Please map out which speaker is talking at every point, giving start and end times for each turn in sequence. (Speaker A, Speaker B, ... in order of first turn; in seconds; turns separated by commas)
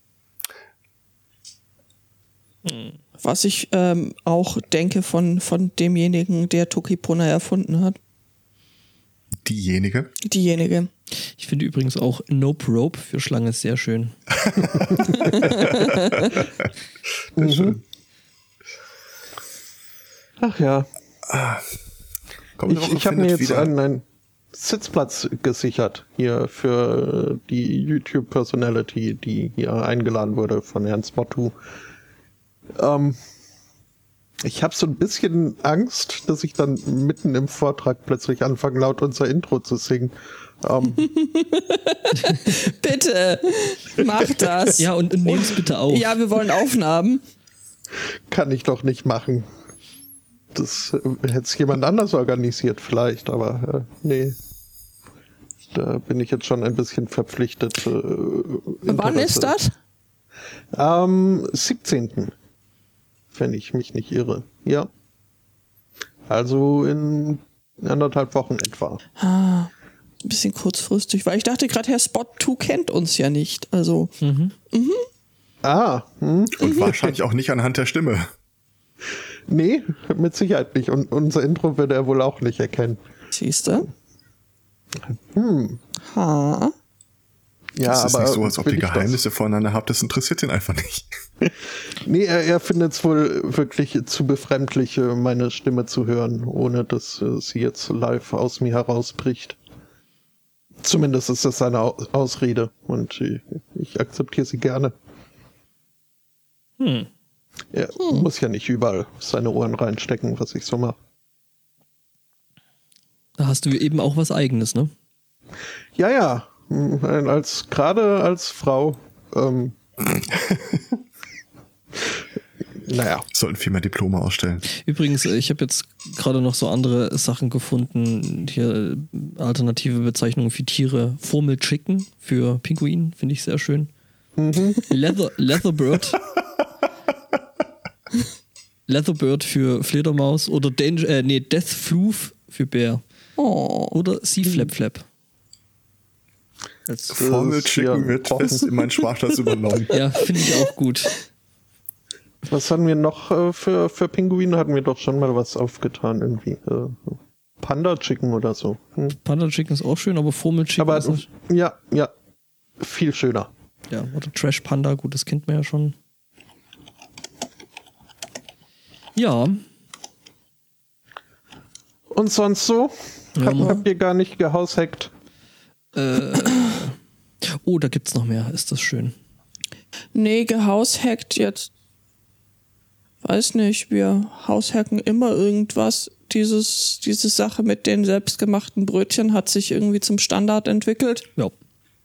Speaker A: 2.6-3.0, Speaker B: 3.2-8.0, Speaker C: 9.4-10.1, Speaker B: 10.2-10.9, Speaker A: 11.3-14.2, Speaker C: 14.4-16.4, Speaker B: 15.2-16.4, Speaker D: 17.4-17.8, Speaker C: 17.4-17.8, Speaker D: 20.4-20.9, Speaker C: 21.3-21.6, Speaker C: 22.6-23.7, Speaker D: 22.7-31.5, Speaker D: 32.8-33.2, Speaker D: 34.4-41.1, Speaker B: 41.0-47.2, Speaker A: 44.8-46.2, Speaker D: 48.3-49.5, Speaker D: 50.5-54.4, Speaker D: 55.7-59.5, Speaker B: 58.9-59.7, Speaker D: 60.7-62.3, Speaker D: 63.3-64.9, Speaker D: 66.3-69.0, Speaker B: 69.2-69.7, Speaker B: 70.2-74.1, Speaker A: 74.2-74.5, Speaker B: 74.7-75.0, Speaker D: 75.6-77.1, Speaker C: 76.5-78.3, Speaker D: 79.5-83.0, Speaker B: 83.3-83.9, Speaker D: 85.3-85.8, Speaker B: 86.0-86.7, Speaker D: 87.7-89.2, Speaker C: 87.8-91.1, Speaker D: 92.0-99.6, Speaker D: 100.8-104.9, Speaker A: 106.8-107.1, Speaker D: 107.7-111.0, Speaker A: 113.4-114.9, Speaker D: 116.0-119.7, Speaker C: 120.1-120.8, Speaker D: 122.8-123.2, Speaker C: 123.3-124.6, Speaker A: 124.7-133.9, Speaker D: 134.4-134.8, Speaker A: 134.9-136.2, Speaker A: 138.9-143.0, Speaker B: 143.4-144.0, Speaker A: 143.9-145.1, Speaker A: 146.9-147.2, Speaker C: 147.1-150.0, Speaker D: 147.1-148.8, Speaker A: 149.9-151.2, Speaker D: 152.4-159.2, Speaker A: 159.2-161.2, Speaker D: 160.8-162.1, Speaker D: 162.8-163.5, Speaker A: 163.9-165.9, Speaker A: 169.2-169.6, Speaker D: 172.1-175.1, Speaker A: 173.3-173.8, Speaker A: 175.9-179.1, Speaker B: 180.1-181.7, Speaker B: 183.2-191.3